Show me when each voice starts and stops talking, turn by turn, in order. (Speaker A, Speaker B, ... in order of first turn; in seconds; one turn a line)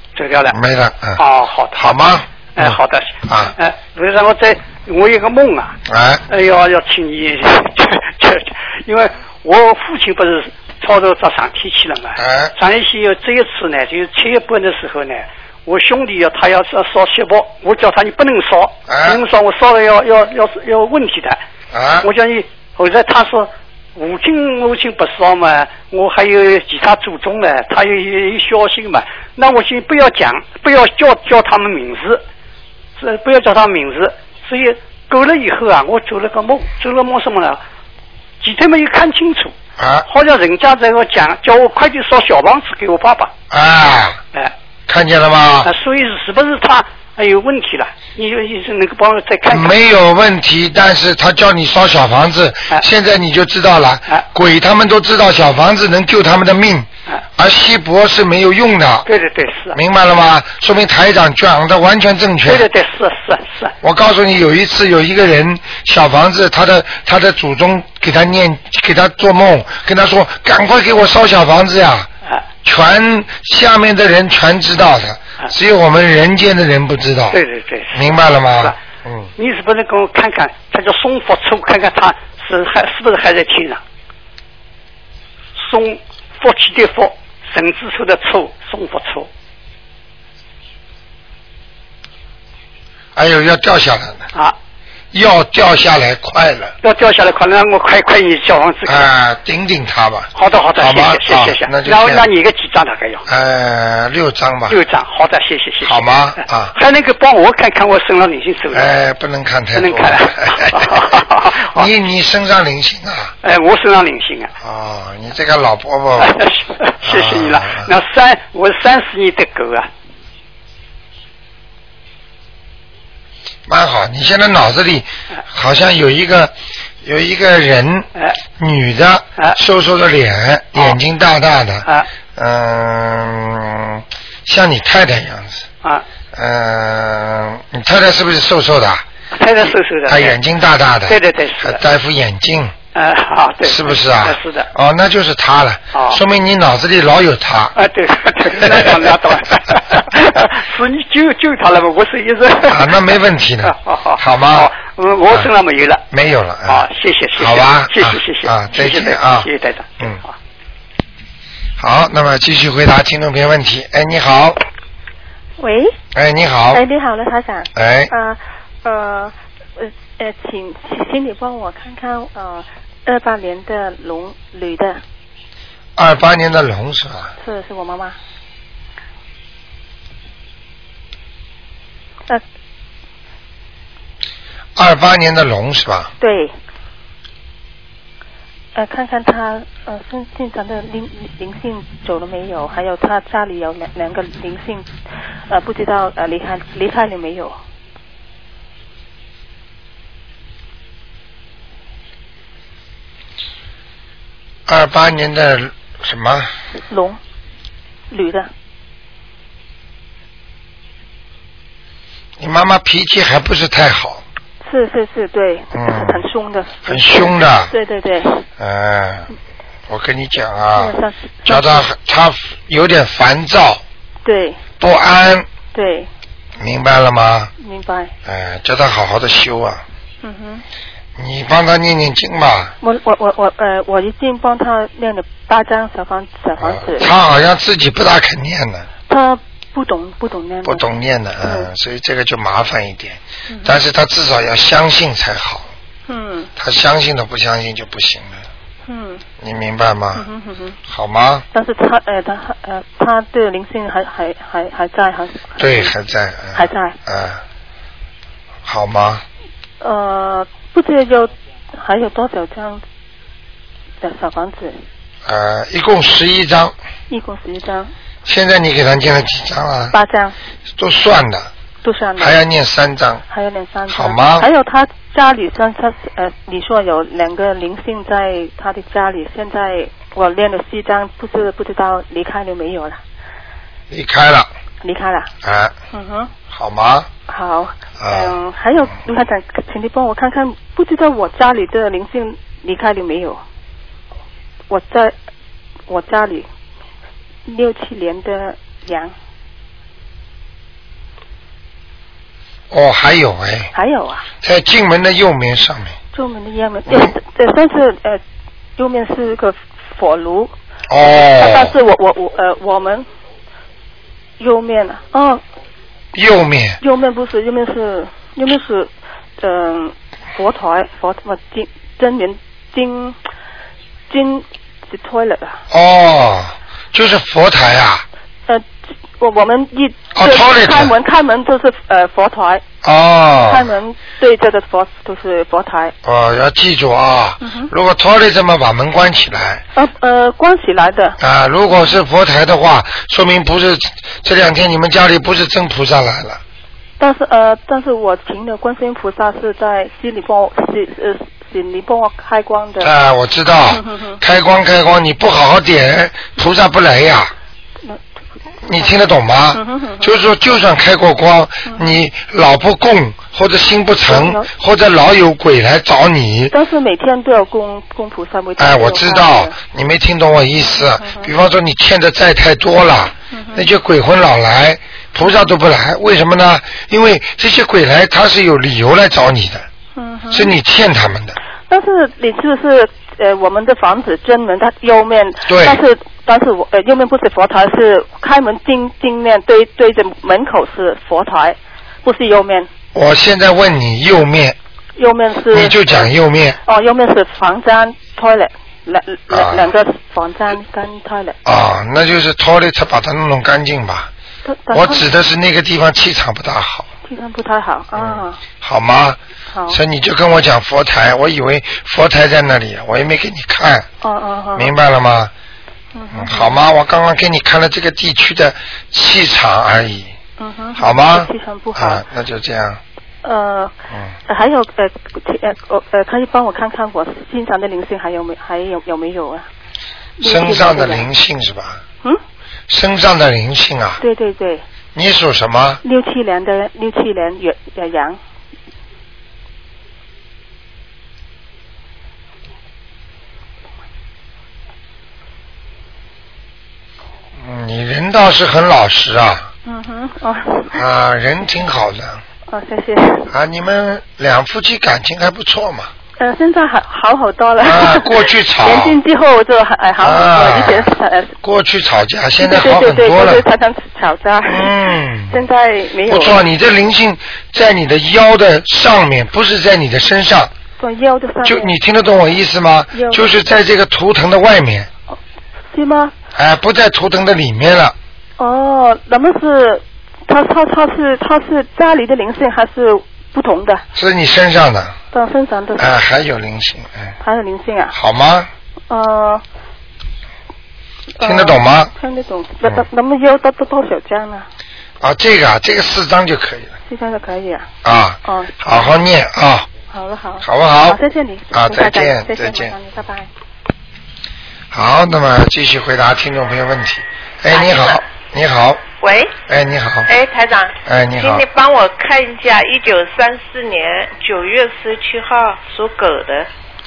Speaker A: 0.1-0.6
Speaker B: 0.5-1.2
Speaker A: 1.2-21.4
Speaker B: 1.7-3.5
Speaker B: 5.9-6.2
Speaker B: 12.2-12.5
Speaker B: 18.9-19.2
Speaker B: 21.7-22.1
Speaker A: 22.0-32.2
Speaker A: 33.0-37.6
Speaker A: 38.4-39.5
Speaker B: 39.8-40.1
Speaker A: 40.1-43.3
Speaker B: 43.5-44.2
Speaker B: 44.9-45.7
Speaker A: 45.6-49.8
Speaker B: 49.5-59.1
Speaker A: 59.0-59.8
Speaker B: 59.7-62.6
Speaker A: 62.4-63.7
Speaker B: 63.8-72.1
Speaker B: 72.6-77.4
Speaker A: 77.3-78.8
Speaker B: 77.9-79.3
Speaker A: 79.4-83.8
Speaker A: 85.5-89.3
Speaker B: 93.1-94.3
Speaker B: 95.1-96.7
Speaker A: 96.8-99.1
Speaker B: 98.8-102.2
Speaker A: 100.3-103.3
Speaker B: 103.3-104.8
Speaker A: 104.7-106.1
Speaker B: 105.8-106.7
Speaker A: 106.7-108.9
Speaker B: 108.7-113.3
Speaker A: 109.8-111.9
Speaker A: 113.4-114.5
Speaker B: 114.6-116.4
Speaker A: 116.2-119.9
Speaker B: 117.0-117.9
Speaker B: 123.7-135.7
Speaker B: 136.3-139.0
Speaker A: 139.3-140.4
Speaker B: 140.1-142.7
Speaker A: 141.1-141.8
Speaker A: 142.9-144.7
Speaker B: 143.6-147.7
Speaker A: 145.9-146.2
Speaker A: 147.8-153.0
Speaker B: 148.4-149.1
Speaker B: 152.7-154.7
Speaker A: 153.6-156.0
Speaker B: 156.1-160.2
Speaker A: 156.7-160.3
Speaker B: 161.8-164.6
Speaker C: 165.6-166.0
Speaker B: 166.1-166.8
Speaker C: 166.7-175.0
Speaker B: 167.7-168.1
Speaker B: 175.9-177.3
Speaker C: 177.4-178.2
Speaker B: 184.8-186.1
Speaker C: 186.2-186.5
Speaker C: 188.7-194.9
Speaker C: 195.5-197.6
Speaker B: 204.7-206.5
Speaker C: 206.9-207.2
Speaker C: 208.1-208.5
Speaker B: 212.4-214.2
Speaker C: 214.6-218.5
Speaker B: 215.7-216.2
Speaker B: 216.8-217.7
Speaker B: 218.6-219.3
Speaker B: 219.9-223.8
Speaker C: 220.7-221.8
Speaker C: 224.2-224.6
Speaker B: 224.8-225.5
Speaker C: 225.7-226.1
Speaker B: 226.6-227.5
Speaker C: 227.6-228.1
Speaker B: 228.2-229.8
Speaker C: 230.2-230.6
Speaker B: 231.2-232.7
Speaker C: 232.8-237.1
Speaker B: 236.6-238.9
Speaker C: 239.1-240.8
Speaker B: 240.6-245.7
Speaker C: 241.4-241.7
Speaker C: 243.5-243.8
Speaker C: 246.1-246.5
Speaker B: 246.6-248.4
Speaker C: 248.8-249.2
Speaker B: 249.4-250.2
Speaker C: 250.1-250.8
Speaker B: 250.9-251.4
Speaker C: 251.5-255.9
Speaker B: 255.6-257.4
Speaker C: 256.5-257.0
Speaker B: 258.6-259.2
Speaker C: 259.8-262.8
Speaker C: 264.0-264.8
Speaker B: 265.2-266.7
Speaker C: 267.1-267.9
Speaker B: 268.2-270.0
Speaker C: 269.9-270.3
Speaker B: 270.8-271.5
Speaker C: 271.8-272.4
Speaker B: 272.2-273.2
Speaker C: 273.3-283.0
Speaker B: 273.9-274.5
Speaker B: 283.9-284.5
Speaker C: 284.8-285.3
Speaker B: 285.4-285.7
Speaker C: 285.9-286.3
Speaker B: 286.5-287.1
Speaker C: 287.3-293.4
Speaker B: 288.0-288.4
Speaker C: 294.7-295.1
Speaker C: 295.9-296.5
Speaker C: 297.4-299.1
Speaker B: 302.7-303.7
Speaker C: 303.7-304.3
Speaker B: 304.4-306.0
Speaker C: 306.1-308.2
Speaker B: 306.9-307.1
Speaker C: 308.8-310.5
Speaker B: 310.9-311.7
Speaker C: 311.1-313.1
Speaker C: 314.4-315.4
Speaker B: 316.1-316.8
Speaker C: 316.8-323.2
Speaker C: 324.1-325.6
Speaker B: 325.7-328.0
Speaker C: 329.2-332.6
Speaker B: 330.1-330.9
Speaker B: 332.8-333.7
Speaker C: 333.4-335.9
Speaker B: 336.0-339.6
Speaker C: 337.4-337.7
Speaker C: 339.7-341.2
Speaker B: 341.2-346.4
Speaker C: 347.0-352.9
Speaker B: 352.8-357.3
Speaker C: 353.7-354.2
Speaker B: 358.6-366.5
Speaker C: 358.7-360.2
Speaker C: 361.7-361.9
Speaker C: 364.0-364.5
Speaker C: 366.5-369.6
Speaker B: 368.6-379.7
Speaker C: 370.6-371.3
Speaker C: 373.3-373.7
Speaker C: 379.9-380.6
Speaker B: 380.3-381.4
Speaker C: 381.7-392.7
Speaker B: 385.5-385.8
Speaker B: 392.9-394.6
Speaker C: 395.0-396.1
Speaker B: 395.5-396.6
Speaker C: 396.6-401.4
Speaker B: 399.3-399.7
Speaker B: 401.4-404.1
Speaker C: 404.4-405.1
Speaker B: 404.7-406.9
Speaker C: 407.0-408.4
Speaker B: 407.9-413.9
Speaker C: 409.5-409.8
Speaker C: 414.0-414.7
Speaker B: 414.5-415.3
Speaker C: 415.9-416.6
Speaker B: 416.1-420.1
Speaker C: 420.4-422.0
Speaker B: 420.8-422.8
Speaker C: 423.2-423.7
Speaker C: 424.3-429.5
Speaker C: 430.2-431.1
Speaker B: 430.2-431.8
Speaker B: 432.7-434.0
Speaker C: 434.0-434.6
Speaker B: 434.9-435.8
Speaker C: 435.8-438.2
Speaker B: 447.4-449.5
Speaker C: 449.6-450.8
Speaker B: 450.7-452.2
Speaker C: 452.5-453.3
Speaker B: 453.3-455.9
Speaker C: 456.2-461.3
Speaker B: 457.6-459.0
Speaker B: 460.0-460.9
Speaker B: 461.4-463.4
Speaker C: 462.4-466.5
Speaker B: 464.5-465.4
Speaker B: 466.1-470.5
Speaker C: 470.8-471.8
Speaker B: 471.4-474.9
Speaker C: 472.9-473.4
Speaker C: 475.7-476.1
Speaker B: 476.3-477.9
Speaker C: 478.4-483.8
Speaker B: 483.9-484.9
Speaker C: 485.1-486.0
Speaker B: 485.8-487.1
Speaker C: 487.2-487.9
Speaker B: 487.9-488.5
Speaker C: 488.9-489.4
Speaker C: 491.1-494.5
Speaker B: 491.2-491.9
Speaker B: 495.0-496.7
Speaker C: 496.9-497.7
Speaker B: 497.8-499.7
Speaker C: 498.2-498.9
Speaker C: 499.9-503.3
Speaker B: 500.4-501.0
Speaker B: 501.5-502.8
Speaker B: 504.7-508.8
Speaker D: 507.5-508.0
Speaker D: 509.0-509.4
Speaker B: 509.5-510.1
Speaker D: 510.1-516.5
Speaker B: 510.8-511.4